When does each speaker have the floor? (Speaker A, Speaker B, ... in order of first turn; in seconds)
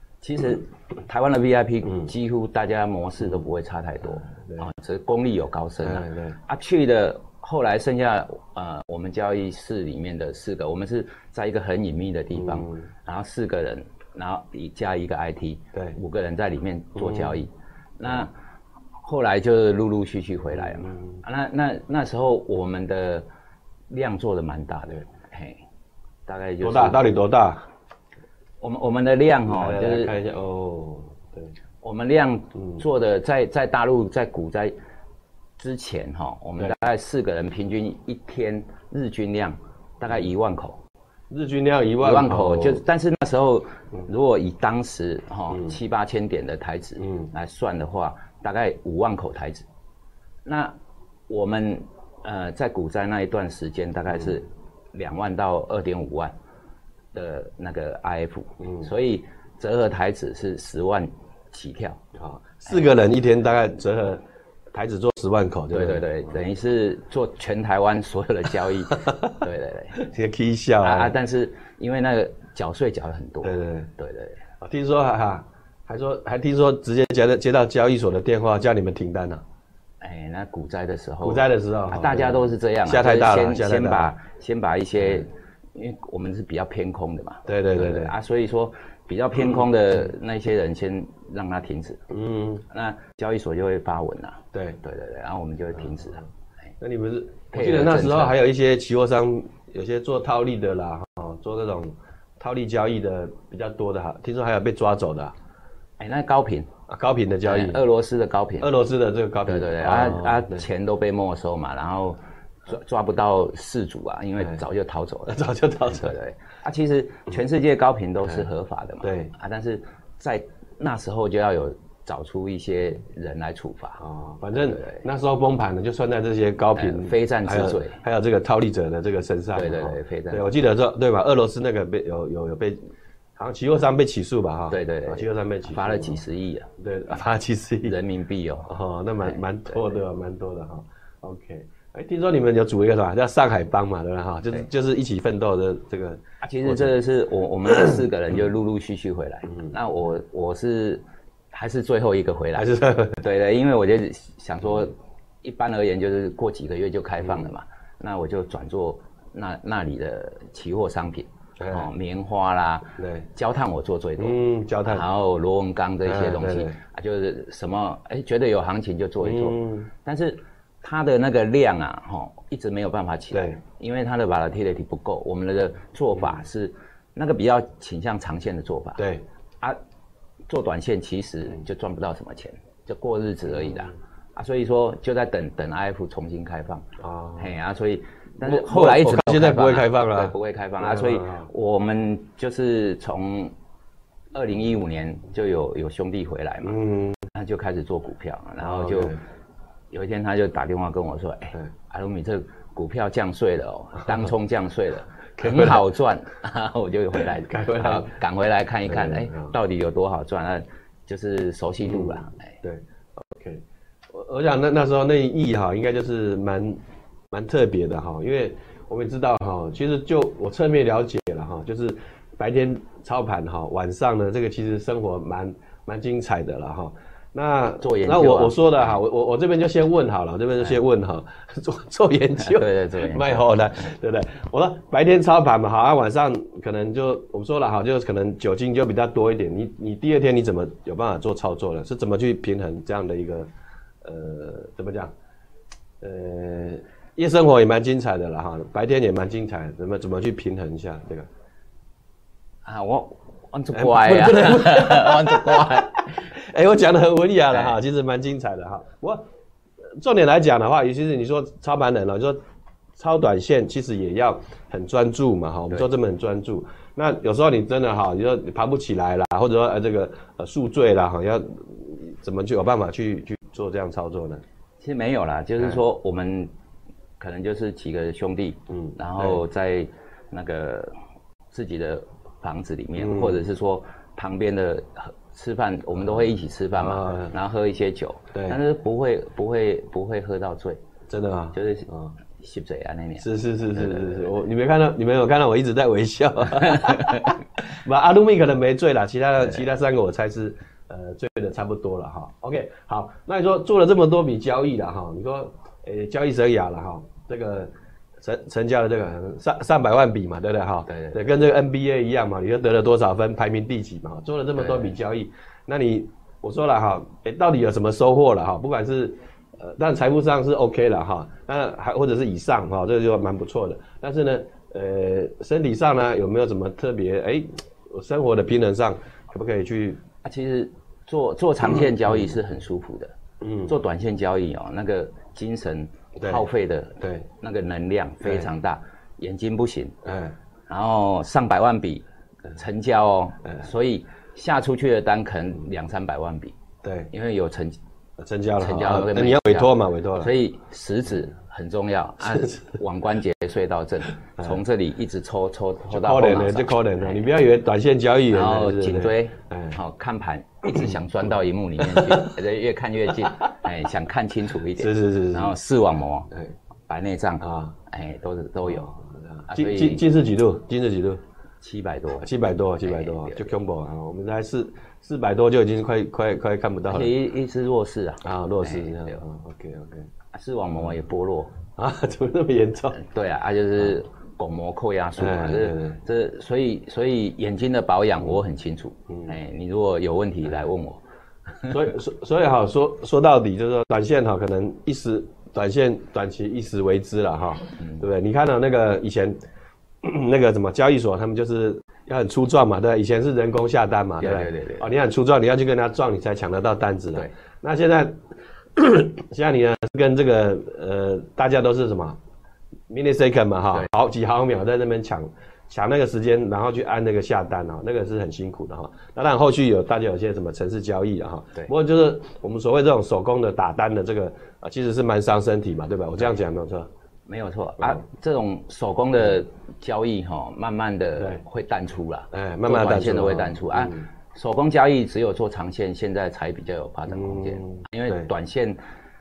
Speaker A: 0.2-18.3, 19.0-23.3, 23.9-25.6, 26.3-27.0, 28.6-30.1, 31.8-34.8, 35.6-40.8, 42.0-49.6, 50.5-50.7, 51.3-56.3, 57.1-62.0, 65.7-70.0, 70.8-74.4, 80.0-92.0, 92.7-96.2, 97.5-98.4, 106.0-106.7, 107.4-108.7, 109.5-124.0, 124.6-125.0, 126.8-128.0, 129.6-130.5, 134.7-136.7, 137.8-138.7, 146.4-179.0, 180.5-193.5, 194.3-199.2, 199.9-212.6, 227.8-228.6, 232.4-233.4, 252.7-256.3, 257.5-257.8, 274.8-276.5, 277.2-280.9, 281.5-290.8, 291.5-294.3, 296.6-297.4, 310.9-311.2, 314.6-314.9, 330.2-339.9, 340.7-346.6, 347.1-347.8, 348.6-357.3, 358.3-366.3, 366.9-368.9, 369.5-370.1, 371.6-372.3, 372.8-373.5, 376.9-379.2, 380.3-381.6, 382.9-391.0, 404.2-404.9, 427.3-438.8
Speaker B: 4.2-4.7, 5.8-6.4, 12.3-12.9, 17.0-17.4, 20.6-21.2, 26.6-27.6, 29.5-31.5, 41.3-42.8, 62.1-66.1, 69.0-69.4, 70.0-71.2, 73.4-73.9, 74.6-79.4, 81.2-84.1, 87.5-88.1, 92.1-92.6, 94.5-94.8, 96.8-105.3, 106.9-107.8, 108.6-110.7, 115.3-116.2, 119.0-119.3, 124.0-132.8, 133.4-136.2, 136.8-138.0, 138.7-146.9, 152.6-153.2, 161.6-161.9, 163.0-163.3, 164.2-165.1, 166.1-166.8, 169.2-169.9, 173.3-173.6, 179.0-179.2, 183.6-183.9, 187.0-187.5, 188.4-191.5, 196.6-197.2, 198.6-199.2, 205.4-205.9, 207.3-208.2, 208.9-209.5, 211.9-216.8, 217.3-243.5, 244.0-245.1, 246.0-251.3, 253.7-259.2, 260.0-262.4, 263.0-274.4, 278.7-279.4, 283.0-283.4, 286.8-287.4, 288.3-288.6, 291.1-292.1, 293.2-330.0, 333.4-333.7, 336.2-336.4, 340.1-340.4, 346.8-347.1, 348.2-350.3, 355.9-359.8, 360.7-360.9, 361.8-362.4, 363.2-363.5, 364.8-365.6, 367.4-367.8, 368.7-371.2, 372.2-377.1, 378.2-380.1, 381.8-383.0, 385.2-386.0, 391.7-399.4, 400.0-412.2, 412.9-426.9, 432.3-434.1, 437.1-438.3